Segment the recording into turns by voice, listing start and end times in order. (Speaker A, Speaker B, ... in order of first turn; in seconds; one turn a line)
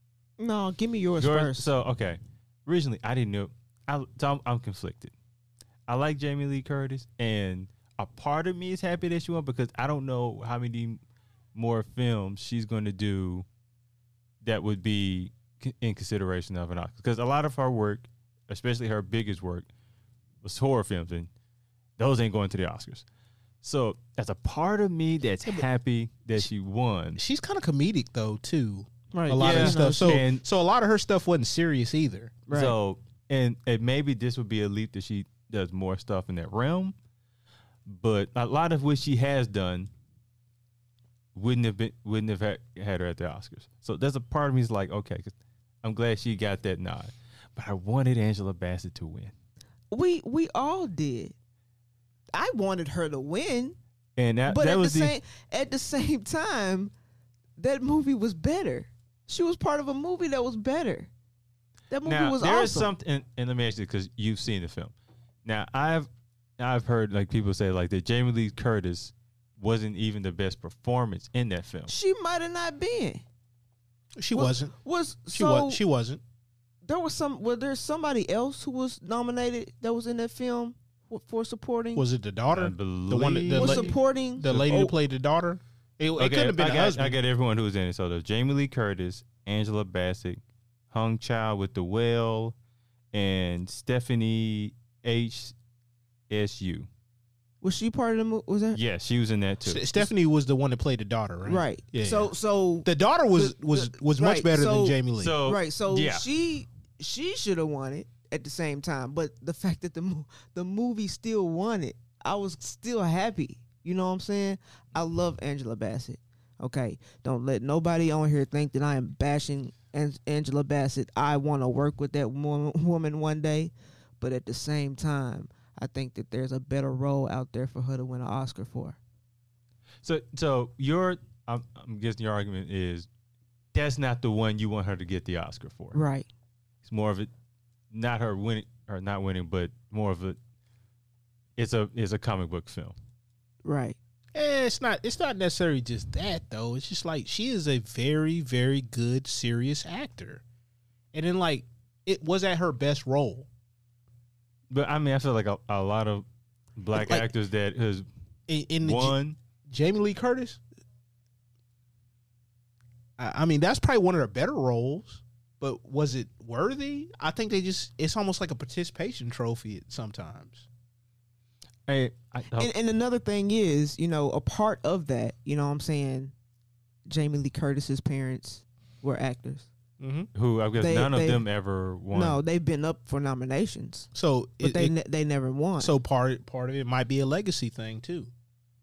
Speaker A: 0.4-1.7
Speaker B: 1.2-5.1
Speaker B: 5.9-11.0
Speaker B: 11.5-13.4
Speaker B: 14.4-19.7
Speaker B: 20.4-21.3
Speaker B: 22.0-23.1
Speaker B: 23.6-27.2
Speaker C: 27.1-32.4
Speaker A: 29.1-30.2
Speaker B: 29.4-30.4
Speaker A: 32.5-32.8
Speaker B: 32.5-36.9
Speaker B: 37.9-39.9
Speaker B: 41.4-49.3
Speaker A: 49.9-51.3
Speaker A: 52.3-53.8
Speaker B: 54.2-55.1
Speaker A: 54.5-56.9
Speaker A: 57.6-61.1
Speaker A: 61.9-62.9
Speaker B: 62.1-64.9
Speaker B: 65.4-66.1
Speaker B: 66.6-71.9
Speaker A: 71.9-73.2
Speaker C: 74.2-74.7
Speaker A: 74.3-75.8
Speaker C: 75.3-76.2
Speaker A: 76.8-82.0
Speaker C: 81.9-87.2
Speaker B: 82.5-83.9
Speaker A: 83.6-84.9
Speaker B: 86.2-92.5
Speaker B: 93.1-95.5
Speaker B: 96.3-96.9
Speaker A: 97.6-98.8
Speaker B: 98.7-100.1
Speaker C: 99.7-102.3
Speaker A: 101.4-129.0
Speaker C: 102.8-105.3
Speaker B: 105.2-106.2
Speaker B: 130.0-133.1
Speaker B: 133.7-136.0
Speaker A: 135.9-136.3
Speaker B: 136.8-137.3
Speaker B: 137.9-140.4
Speaker B: 141.6-142.9
Speaker A: 143.6-143.9
Speaker C: 144.3-150.4
Speaker C: 151.1-153.5
Speaker B: 154.7-156.2
Speaker B: 156.8-158.1
Speaker C: 158.5-160.6
Speaker B: 158.8-159.4
Speaker C: 163.2-170.7
Speaker B: 171.9-172.7
Speaker A: 172.6-176.3
Speaker A: 177.1-179.7
Speaker C: 180.0-180.3
Speaker B: 180.3-182.4
Speaker A: 180.8-181.4
Speaker A: 182.1-184.1
Speaker C: 184.1-184.9
Speaker A: 184.6-185.9
Speaker C: 185.8-188.3